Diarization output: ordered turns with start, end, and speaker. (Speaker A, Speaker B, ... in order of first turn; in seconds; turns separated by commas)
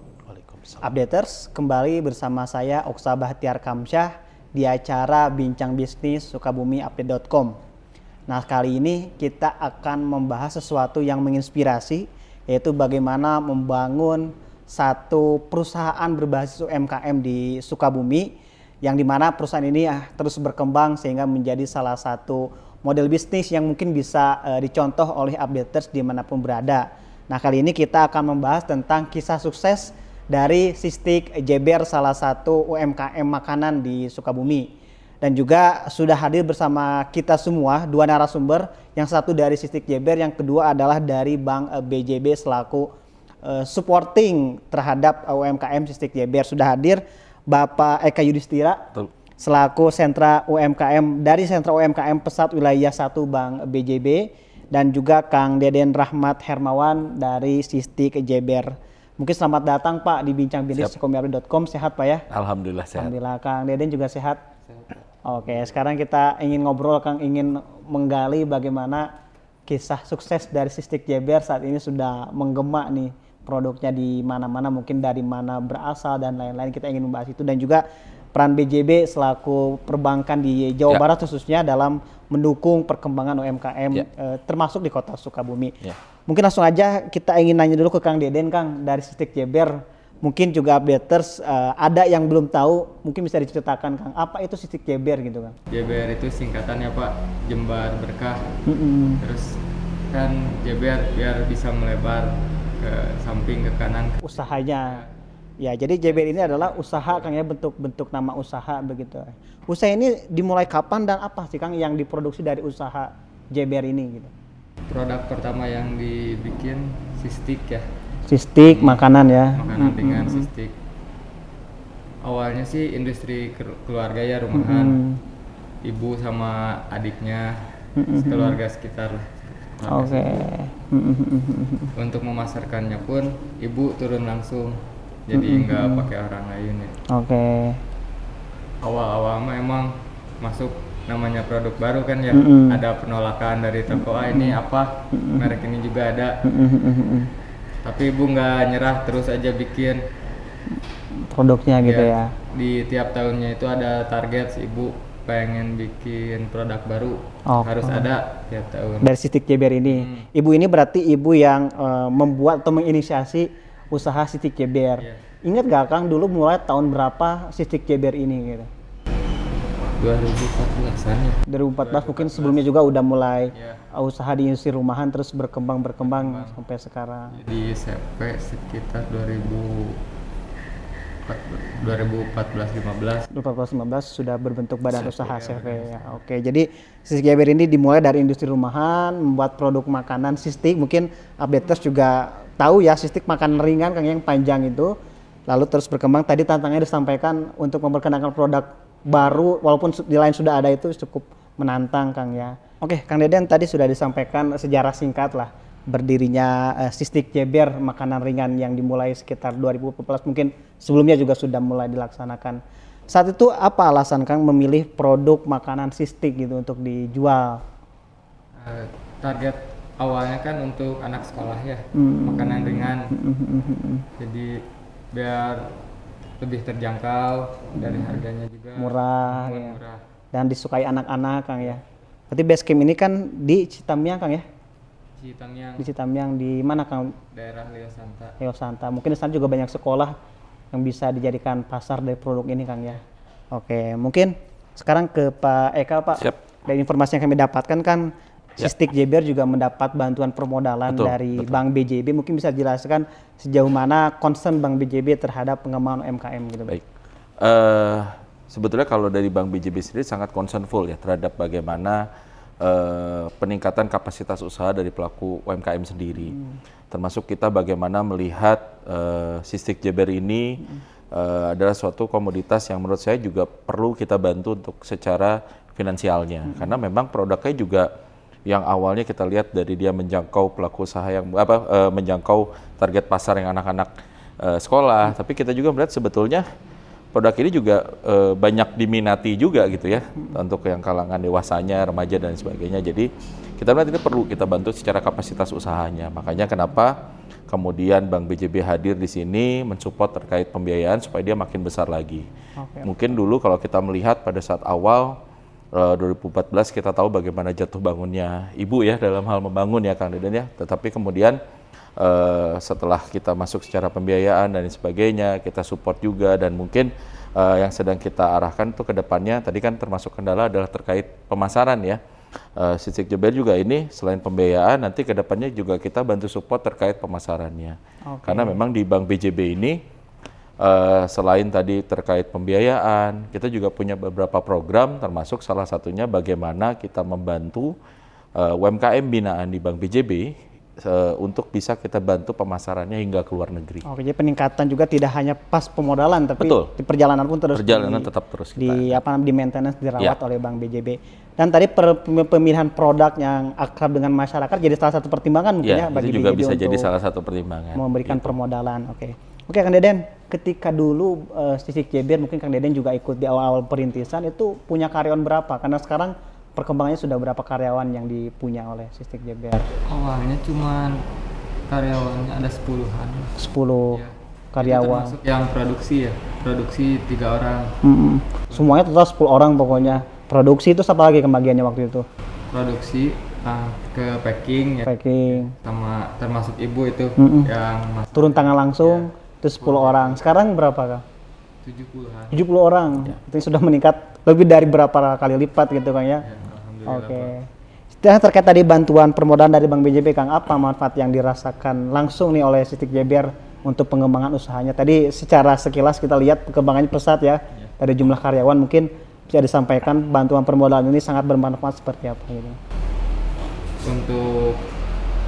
Speaker A: 0.3-0.8, Speaker B: 0.8-7.6, Speaker B: 8.3-42.9, Speaker B: 43.4-62.3, Speaker A: 62.3-63.1, Speaker B: 63.0-64.4, Speaker B: 65.2-69.1, Speaker B: 69.7-95.6, Speaker C: 95.7-98.5, Speaker B: 98.7-99.2, Speaker C: 99.2-105.1, Speaker B: 104.2-105.0, Speaker B: 105.6-114.3, Speaker C: 106.1-107.3, Speaker C: 114.9-117.9, Speaker B: 118.3-120.5, Speaker C: 118.6-120.8, Speaker C: 122.2-125.0, Speaker B: 124.5-125.2, Speaker C: 125.8-127.6, Speaker B: 128.0-128.6, Speaker C: 128.2-130.4, Speaker B: 129.9-131.9, Speaker C: 131.9-136.9, Speaker B: 135.3-136.1, Speaker B: 137.1-137.8, Speaker C: 138.8-146.4, Speaker B: 142.3-142.8, Speaker B: 143.9-144.6, Speaker B: 145.1-145.6, Speaker B: 146.4-147.3, Speaker C: 147.8-150.0, Speaker B: 151.3-152.3, Speaker C: 151.8-159.1, Speaker B: 157.5-158.1, Speaker B: 159.0-168.7, Speaker C: 159.9-160.3, Speaker C: 170.0-172.7, Speaker B: 171.5-177.4, Speaker C: 173.5-173.8, Speaker C: 176.0-176.6, Speaker C: 177.3-180.0, Speaker C: 181.3-183.3, Speaker B: 183.3-194.9, Speaker C: 185.0-186.2, Speaker B: 195.5-217.6, Speaker C: 218.6-223.1, Speaker B: 221.9-224.1, Speaker C: 224.2-225.8, Speaker C: 226.4-230.0, Speaker B: 227.8-228.2, Speaker B: 228.8-229.8, Speaker B: 230.3-234.4, Speaker C: 235.2-235.9, Speaker B: 235.8-237.2, Speaker C: 237.3-238.4, Speaker B: 238.4-240.2, Speaker B: 240.7-243.0, Speaker B: 243.5-256.8, Speaker A: 250.9-251.6, Speaker A: 257.4-262.1, Speaker A: 262.6-266.4, Speaker A: 266.9-277.9, Speaker A: 278.5-286.5, Speaker A: 287.1-297.0, Speaker A: 297.5-302.3, Speaker B: 302.6-303.0, Speaker A: 302.8-305.2, Speaker A: 305.7-311.4, Speaker A: 312.0-322.0, Speaker A: 322.5-329.8, Speaker B: 328.1-328.6, Speaker A: 330.6-337.8, Speaker A: 338.4-343.8, Speaker B: 343.9-356.9, Speaker A: 346.4-346.7, Speaker A: 347.5-349.0, Speaker A: 355.6-358.3, Speaker B: 357.8-369.7, Speaker C: 369.9-371.1, Speaker C: 371.7-373.4, Speaker B: 373.4-374.0, Speaker C: 373.9-377.8, Speaker B: 374.5-375.2, Speaker B: 377.8-382.1, Speaker C: 378.5-378.8, Speaker C: 379.7-380.0, Speaker C: 382.5-389.1, Speaker B: 384.9-385.5, Speaker B: 387.2-387.5, Speaker B: 388.1-391.0, Speaker C: 389.6-390.2, Speaker C: 391.6-392.4, Speaker B: 392.3-396.3, Speaker C: 396.2-397.3, Speaker B: 396.9-397.5, Speaker B: 398.0-412.6, Speaker C: 413.8-414.6